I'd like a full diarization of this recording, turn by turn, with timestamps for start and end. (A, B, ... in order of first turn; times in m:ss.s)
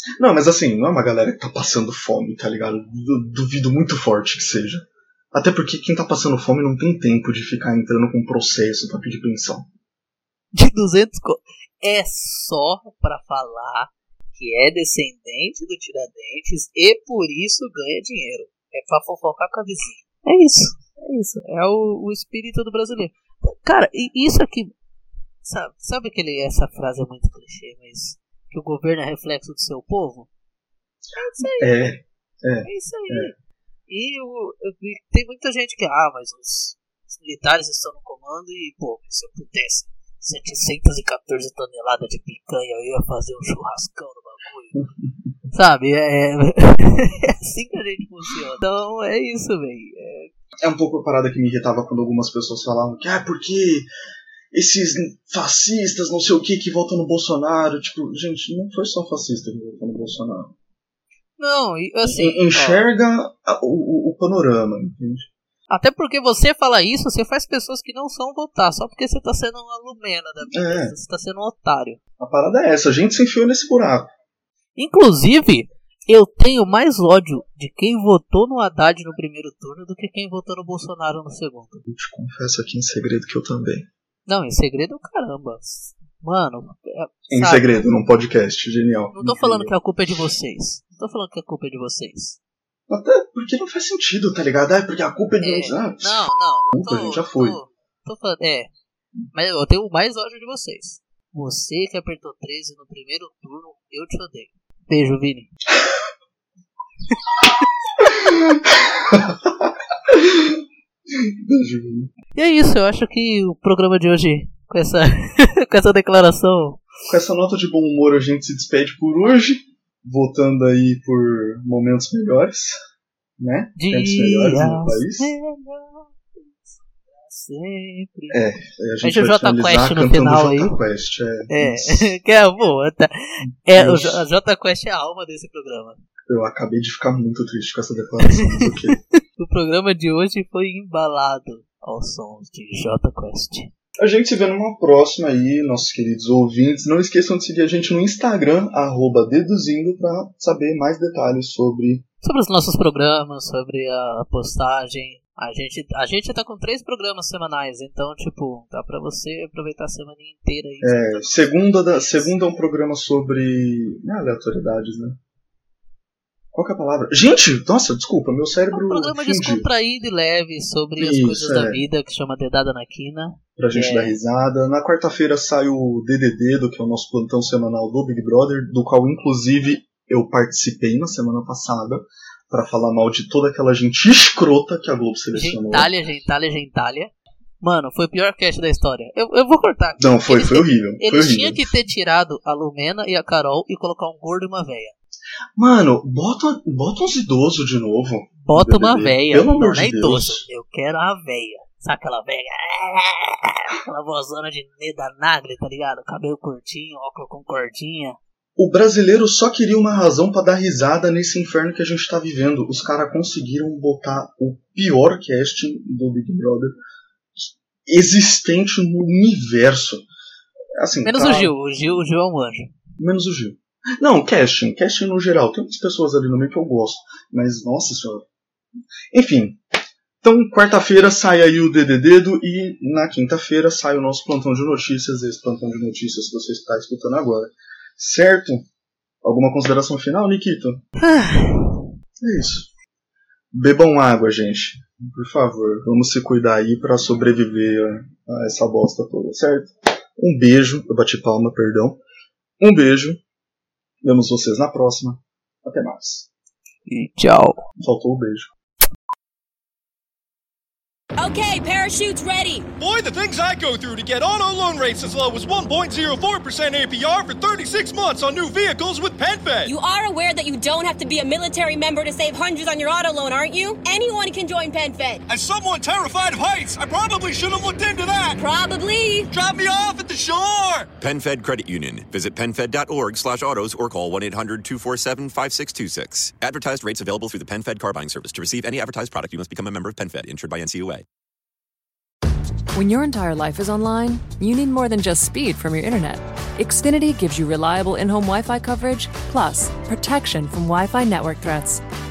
0:00.2-0:09.7 A
0:10.5-0:24.7 B
0:25.4-0:30.3 B
0:31.2-0:31.9 B
0:31.4-0:33.3 A
0:32.6-0:33.3 B
0:33.9-0:44.7 B
0:44.7-0:45.1 A
0:45.5-0:50.3 B
0:50.6-0:53.9 A
0:54.5-1:00.5 A
1:01.4-1:02.9 B
1:02.0-1:05.3 A
1:05.7-1:12.0 B
1:10.5-1:10.9 A
1:12.2-1:14.1 A
1:14.8-1:21.8 B
1:21.8-1:23.9 A
1:24.3-1:27.8 B
1:27.3-1:29.7 A
1:29.1-1:32.4 B
1:32.9-1:37.6 A
1:35.4-1:38.7 B
1:39.3-1:45.5 B
1:47.6-1:48.3 B
1:48.2-1:50.6 A
1:51.1-1:52.1 A
1:52.3-1:56.8 B
1:57.1-2:02.8 A
2:03.4-2:05.3 A
2:03.8-2:06.7 B
2:07.2-2:08.4 B
2:08.3-2:12.1 A
2:09.0-2:10.7 B
2:11.5-2:16.0 B
2:13.4-2:14.2 A
2:16.3-2:19.0 A
2:18.3-2:23.7 B
2:24.0-2:32.0 A
2:32.2-2:42.3 B
2:40.8-2:45.2 A
2:46.5-2:49.7 A
2:48.7-2:54.2 B
2:51.0-2:51.8 A
2:53.6-3:05.9 A
3:05.3-3:14.9 B
3:10.0-3:11.7 A
3:15.6-3:20.4 A
3:18.4-3:28.2 B
3:28.6-3:36.8 A
3:37.4-3:40.0 A
3:40.8-3:41.5 A
3:41.0-3:42.7 B
3:43.0-3:48.2 A
3:49.1-3:49.6 A
3:50.2-3:58.6 A
3:59.2-4:00.8 A
4:01.0-4:01.9 B
4:02.2-4:02.7 A
4:03.5-4:12.0 A
4:12.6-4:13.2 A
4:14.0-4:16.3 A
4:16.9-4:17.6 B
4:17.8-4:18.5 A
4:21.2-4:22.7 C
4:22.8-4:29.7 D
4:29.6-4:35.2 C
4:35.3-4:38.4 D
4:38.3-4:39.3 C
4:39.3-4:40.9 D
4:41.0-4:51.0 E
4:52.7-5:01.8 F